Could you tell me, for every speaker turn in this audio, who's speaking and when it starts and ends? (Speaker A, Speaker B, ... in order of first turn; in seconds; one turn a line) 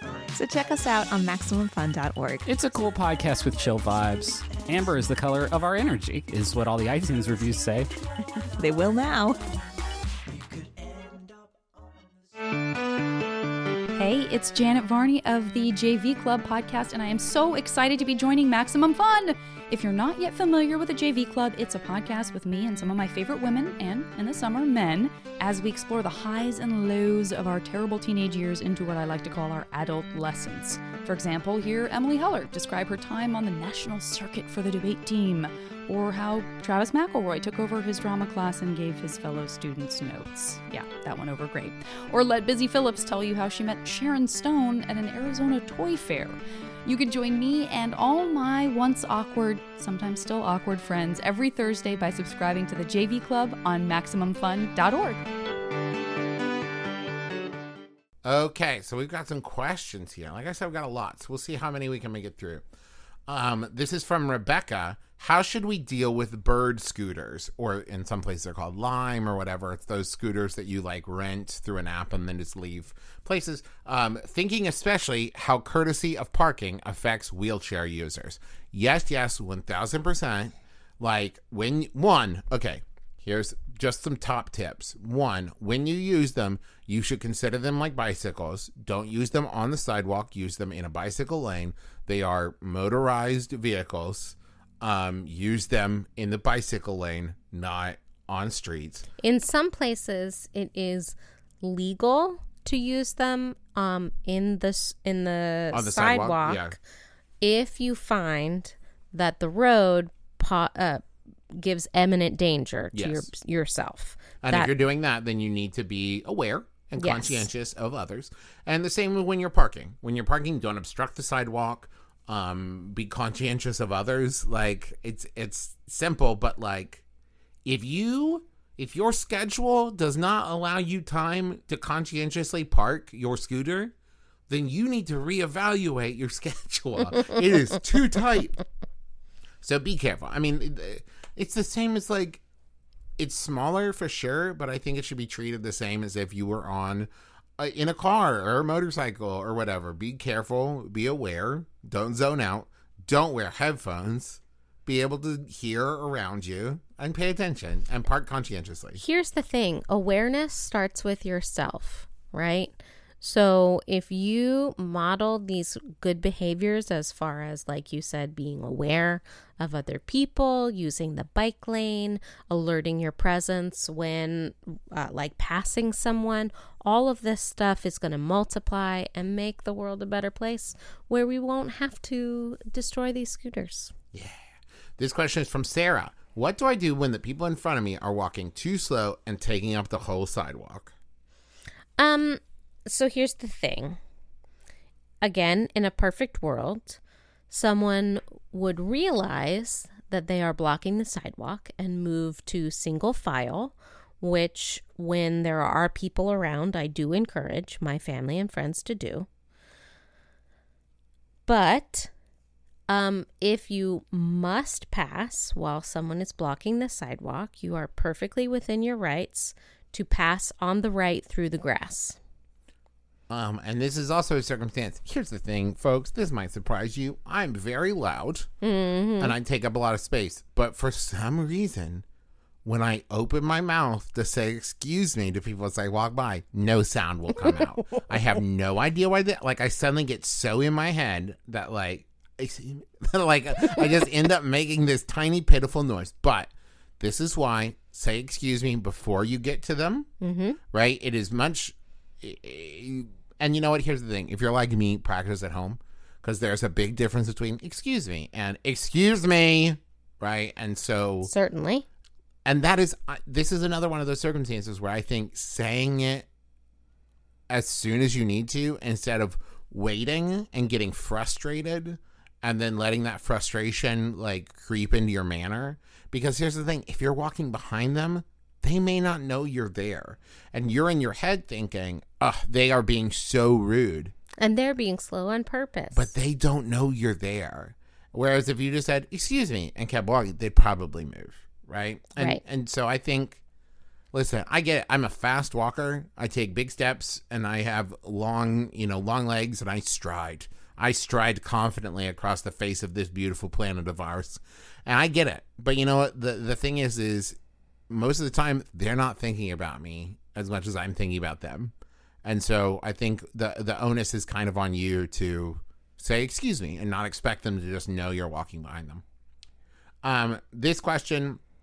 Speaker A: 0.3-2.4
Speaker B: 2.5-7.9
Speaker A: 8.6-9.4
Speaker C: 13.9-55.2
Speaker D: 58.2-62.6
Speaker D: 63.3-99.1
Speaker E: 99.2-106.8
Speaker D: 105.7-106.7
Speaker E: 107.4-114.7
Speaker D: 112.9-113.3
Speaker D: 114.4-127.0
Speaker E: 117.0-117.5
Speaker D: 127.6-133.9
Speaker D: 134.5-138.6
Speaker D: 139.6-142.4
Speaker D: 143.2-159.0
Speaker E: 158.9-183.9
Speaker D: 184.1-184.4
Speaker D: 185.0-190.9
Speaker E: 192.0-194.0
Speaker E: 195.2-209.3
Speaker E: 211.5-212.1
Speaker E: 212.9-222.2
Speaker D: 223.3-228.5
Speaker E: 228.6-229.3
Speaker D: 229.2-232.0
Speaker D: 232.6-250.1
Speaker E: 250.2-250.6
Speaker D: 250.7-261.3
Speaker E: 261.2-261.9
Speaker D: 262.4-266.3
Speaker D: 267.5-284.1
Speaker E: 284.4-286.1
Speaker D: 285.9-293.4
Speaker E: 292.2-292.4
Speaker D: 294.1-307.4
Speaker D: 307.9-311.7
Speaker D: 312.2-319.0
Speaker D: 320.0-321.4